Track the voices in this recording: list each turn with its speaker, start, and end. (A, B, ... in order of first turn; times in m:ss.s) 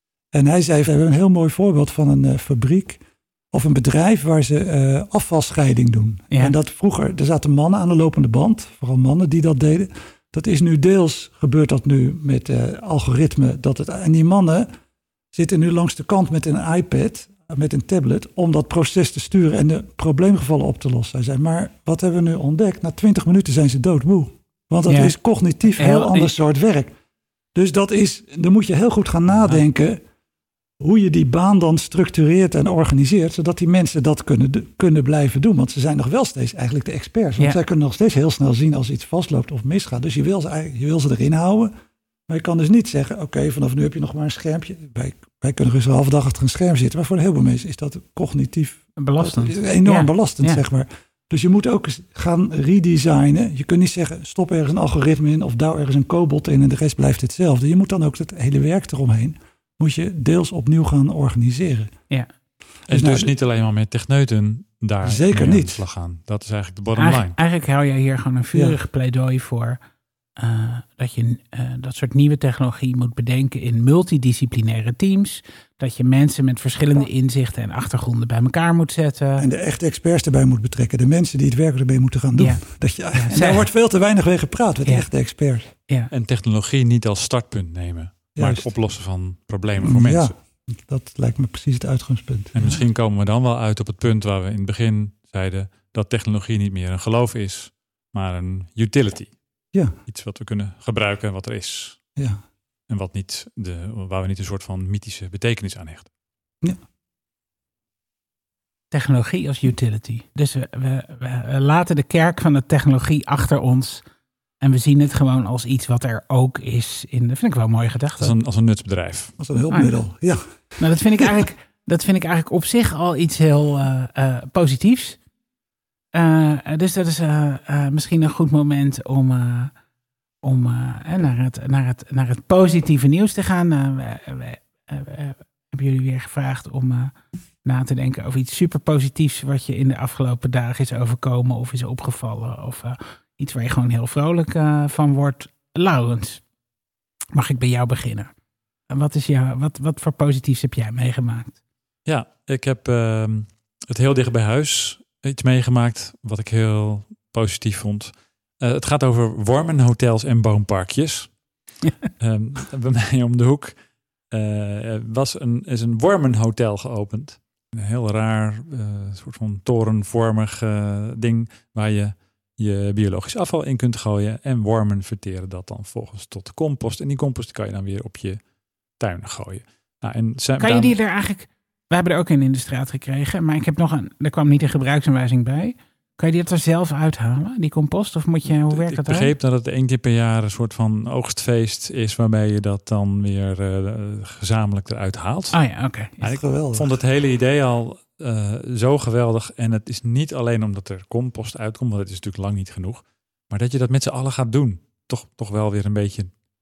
0:00.3-0:03.0 A
0:03.5-0:14.7 A
0:15.3-0:26.9 A
0:24.9-0:25.1 B
0:25.7-0:26.3 B
0:27.6-0:30.0 A
0:30.8-0:41.7 A
0:42.3-1:01.9 A
0:49.0-0:50.6 B
1:02.9-1:07.3 C
1:02.9-1:03.3 A
1:05.0-1:05.8 A
1:07.0-1:09.8 B
1:10.4-1:19.5 B
1:19.4-1:25.7 A
1:22.4-1:23.7 B
1:26.1-1:30.3 C
1:28.4-1:28.7 A
1:29.8-1:32.8 A
1:32.5-1:39.3 C
1:40.1-1:42.0 C
1:42.2-1:42.4 A
1:42.9-1:46.1 C
1:48.9-1:54.0 B
1:54.6-1:58.3 B
1:58.2-1:59.3 C
1:59.4-2:01.3 A
2:00.8-2:05.2 B
2:06.1-2:09.7 B
2:10.4-2:26.4 B
2:27.3-2:28.3 B
2:28.9-2:31.6 B
2:32.0-2:41.4 C
2:42.2-2:43.7 C
2:44.3-2:58.4 C
2:59.0-3:01.0 C
3:00.6-3:09.3 B
3:08.7-3:15.6 C
3:15.5-3:16.3 B
3:16.2-3:26.3 C
3:16.2-3:16.9 A